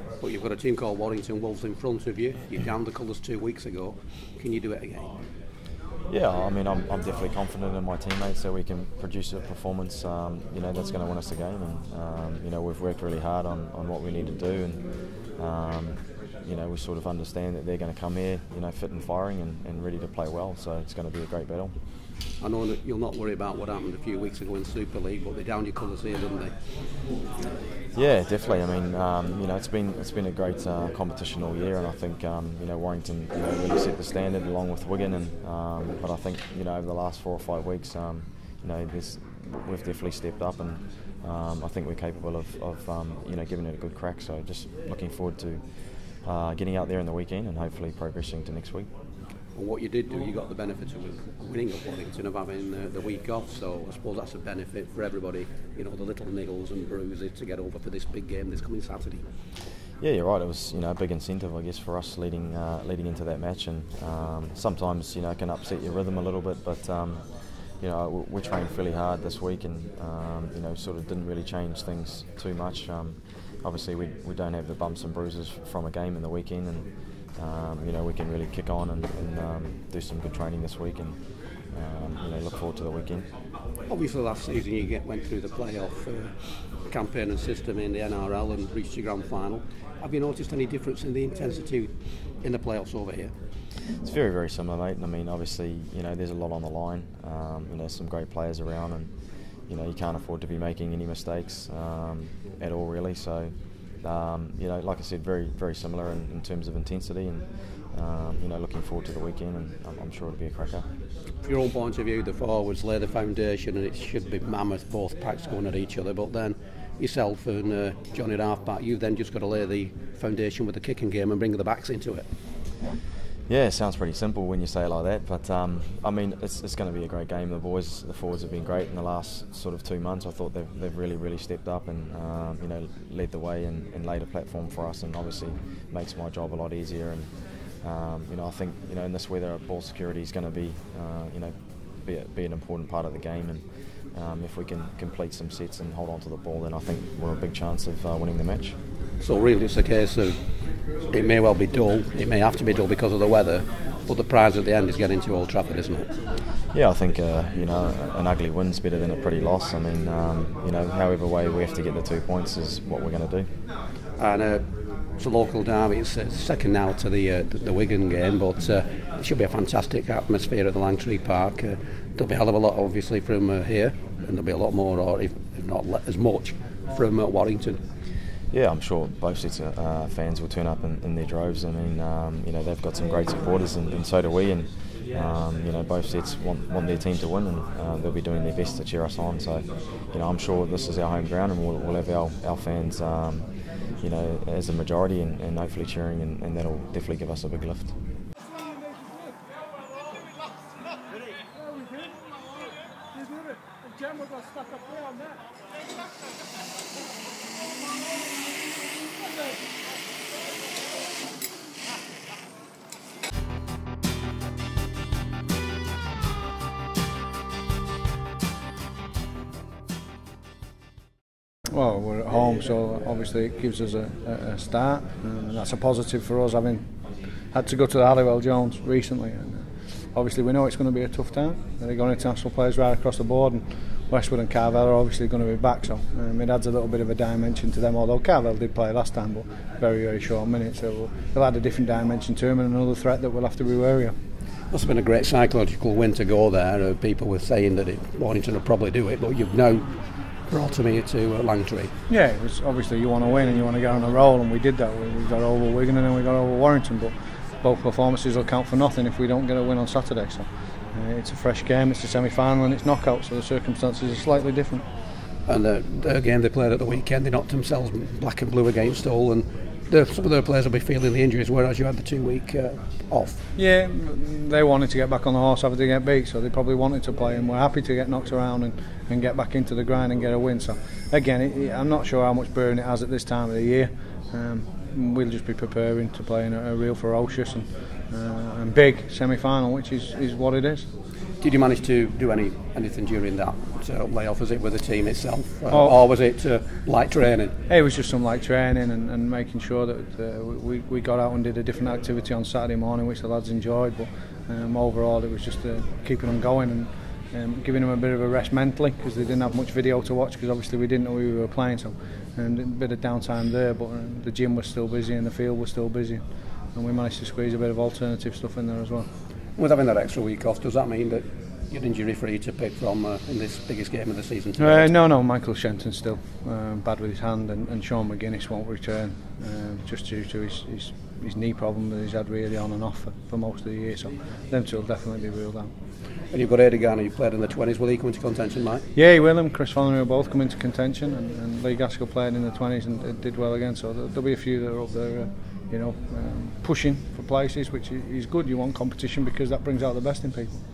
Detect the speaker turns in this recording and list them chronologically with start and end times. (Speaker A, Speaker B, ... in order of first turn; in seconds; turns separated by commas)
Speaker A: 0.2-5.1, Speaker B: 6.1-21.8, Speaker A: 22.4-26.6, Speaker B: 27.9-48.9, Speaker A: 49.5-59.2, Speaker B: 60.0-83.3, Speaker A: 83.9-86.3, Speaker A: 86.8-93.3, Speaker B: 94.0-110.8, Speaker A: 111.4-122.2, Speaker B: 123.5-148.8, Speaker A: 149.2-156.1, Speaker B: 156.7-163.5, Speaker A: 164.2-177.8, Speaker B: 178.5-197.9, Speaker C: 221.7-226.9, Speaker C: 227.5-244.1, Speaker A: 244.7-249.9, Speaker A: 250.5-251.9, Speaker C: 252.1-264.9, Speaker A: 265.5-273.4, Speaker C: 273.5-290.9, Speaker A: 291.4-297.5, Speaker C: 295.7-295.9, Speaker C: 297.7-319.1, Speaker A: 319.6-324.9, Speaker C: 324.6-335.7, Speaker A: 336.3-338.8, Speaker C: 338.9-350.6